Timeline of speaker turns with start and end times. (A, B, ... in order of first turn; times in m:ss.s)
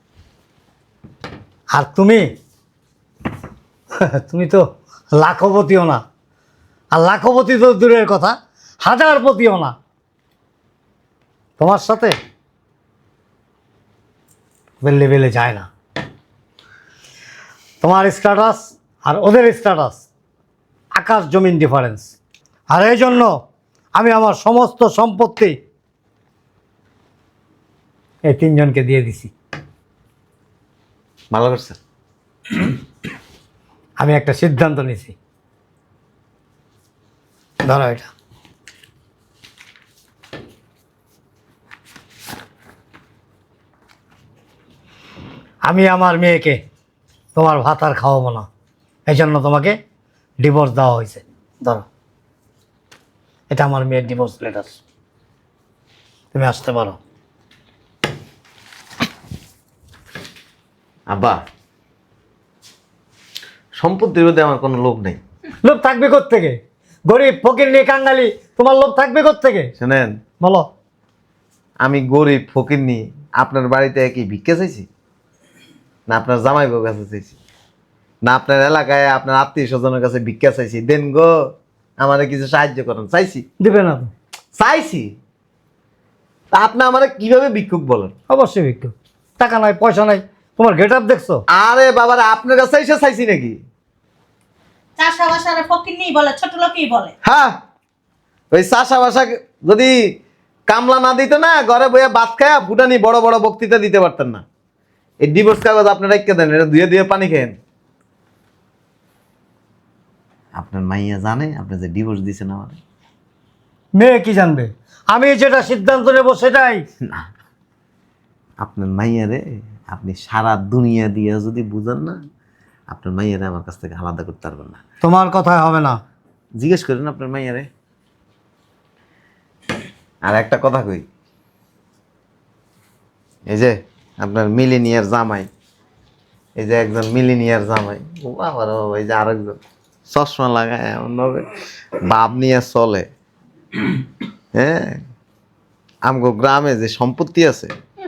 0:01.7-0:02.3 A
0:04.0-0:06.0 A
0:06.9-0:09.8 A
0:11.6-0:12.2 A
0:14.8-0:15.7 A
0:17.8-0:20.1 A
0:21.0-0:22.1 A
0:22.7-0:23.4 A
0:24.0-0:25.6 A
0:28.3-0:29.3 A
0:31.3-0:31.8 B
0:34.0-0:35.2 A
0:37.6-0:38.1 A
0:45.6-0:46.6 A
0:47.4-0:48.5 A
0:49.1-0:49.8 A
0:50.4-0:51.9 A
0:53.5-0:54.8 A
0:56.3-0:57.0 A
1:01.1-1:01.4 B
1:03.8-1:05.2 B
1:05.6-1:06.6 A
1:07.1-1:09.7 A
1:09.8-1:10.2 B
1:10.4-1:10.7 A
1:11.8-1:14.9 B
1:16.1-1:17.4 B
1:18.2-1:23.4 B
1:23.6-1:24.1 A
1:24.6-1:25.1 B
1:26.5-1:28.1 B
1:28.3-1:31.4 A
1:31.5-1:33.6 B
1:35.0-1:37.1 C
1:37.2-1:37.5 B
1:38.5-1:40.0 B
1:40.7-1:44.4 B
1:45.2-1:47.6 B
1:50.6-1:52.8 B
1:54.0-1:56.8 A
1:58.6-2:02.2 B
2:02.9-2:04.8 B
2:05.0-2:06.0 A
2:06.6-2:07.7 B
2:10.2-2:11.0 B
2:13.5-2:15.5 B
2:16.6-2:19.6 B
2:20.1-2:21.5 B
2:22.0-2:23.1 B
2:24.6-2:25.0 B
2:26.0-2:27.7 B